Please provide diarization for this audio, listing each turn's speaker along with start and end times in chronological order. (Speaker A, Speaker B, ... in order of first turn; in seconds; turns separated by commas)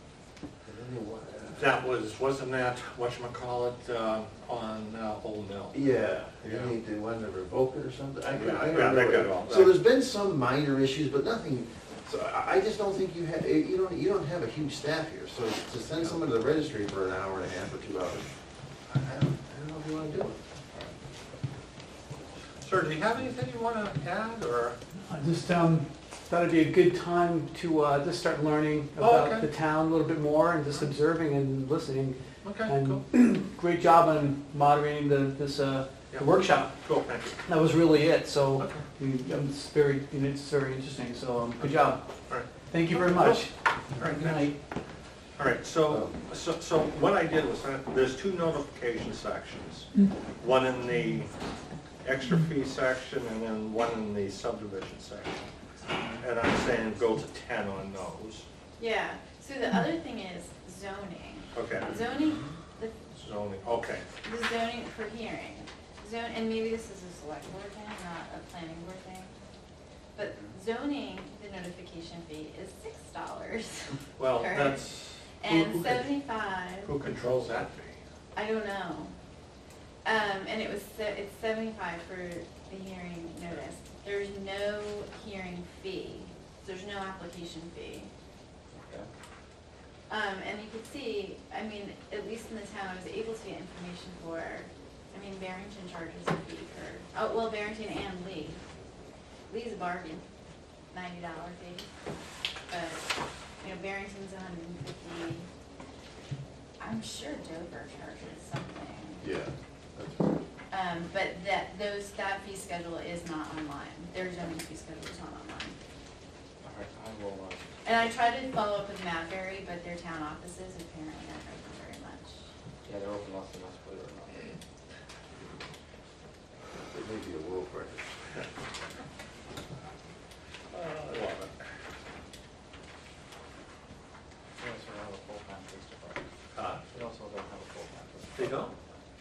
Speaker A: 0.7-1.7, Speaker B: 1.6-5.8, Speaker A: 5.7-18.3, Speaker B: 6.4-6.7, Speaker B: 8.3-9.8, Speaker A: 18.9-20.4, Speaker B: 22.6-24.8, Speaker C: 25.1-36.8, Speaker B: 29.0-29.5, Speaker B: 32.4-33.0, Speaker B: 36.1-37.4, Speaker C: 37.5-42.0, Speaker B: 38.6-38.9, Speaker B: 42.3-44.5, Speaker C: 42.6-44.6, Speaker B: 45.4-51.3, Speaker A: 45.9-46.2, Speaker B: 52.0-55.5, Speaker B: 56.2-58.5, Speaker D: 58.8-63.0, Speaker B: 61.5-62.0, Speaker B: 63.1-64.0, Speaker D: 64.2-69.3, Speaker D: 70.2-74.8, Speaker E: 70.2-70.5, Speaker B: 74.2-78.0, Speaker D: 75.4-76.9, Speaker D: 78.3-79.1, Speaker D: 80.0-88.1, Speaker E: 88.7-89.1, Speaker D: 90.1-98.6, Speaker D: 99.5-100.3, Speaker D: 100.9-101.9, Speaker D: 102.7-103.0, Speaker D: 103.6-105.5, Speaker D: 106.8-109.2, Speaker A: 109.2-110.3, Speaker D: 110.7-115.8, Speaker E: 116.6-117.7, Speaker D: 117.8-122.3, Speaker E: 122.8-124.5, Speaker A: 126.9-128.2, Speaker B: 130.7-131.6, Speaker E: 134.6-136.3, Speaker B: 136.6-136.8, Speaker E: 136.9-138.7, Speaker B: 138.3-138.7